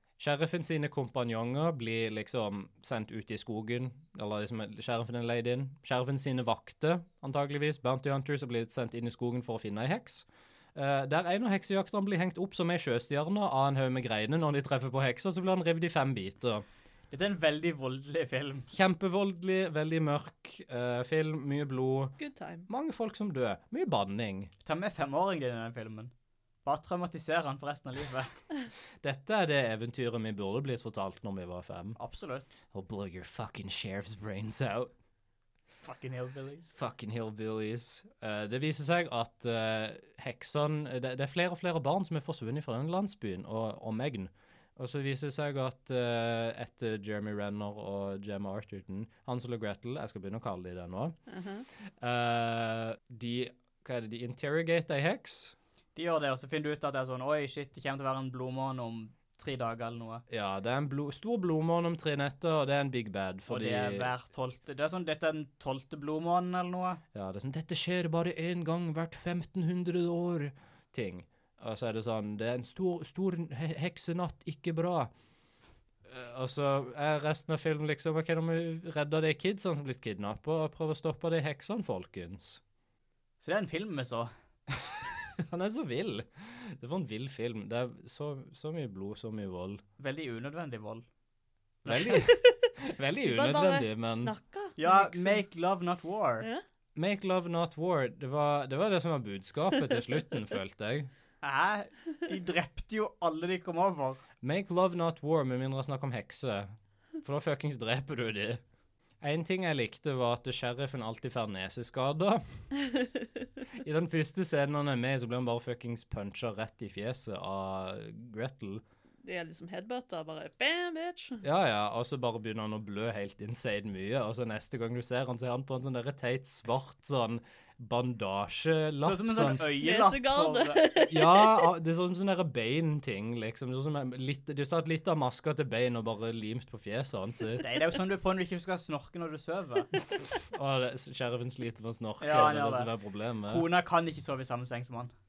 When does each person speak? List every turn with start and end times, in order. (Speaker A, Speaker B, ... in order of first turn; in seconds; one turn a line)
Speaker A: 0.2-16.6
Speaker B: 17.1-18.7
Speaker A: 18.7-22.1
Speaker C: 22.2-22.7
Speaker A: 22.7-24.5
Speaker B: 24.6-26.1
Speaker B: 26.6-28.3
Speaker A: 29.0-32.0
Speaker B: 32.0-32.6
Speaker A: 32.7-34.9
Speaker B: 35.8-36.8
Speaker A: 36.8-51.1
Speaker C: 51.3-51.6
Speaker A: 52.0-55.5
Speaker B: 55.9-60.2
Speaker A: 60.3-64.1
Speaker B: 63.5-67.0
Speaker A: 67.1-75.1
Speaker A: 76.1-82.6
Speaker B: 83.4-84.3
Speaker A: 84.8-89.8
Speaker B: 90.0-91.0
Speaker B: 91.8-92.2
Speaker A: 91.8-94.3
Speaker C: 93.2-95.4
Speaker B: 94.8-96.5
Speaker A: 96.9-101.1
Speaker B: 101.4-104.2
Speaker A: 104.4-106.7
Speaker A: 107.2-108.6
Speaker A: 109.2-112.4
Speaker A: 113.8-118.8
Speaker C: 119.2-121.4
Speaker A: 121.4-129.6
Speaker B: 129.0-130.8
Speaker C: 129.8-131.7
Speaker A: 131.0-137.6
Speaker B: 137.6-139.9
Speaker A: 140.1-143.6
Speaker B: 142.2-142.9
Speaker B: 143.5-145.1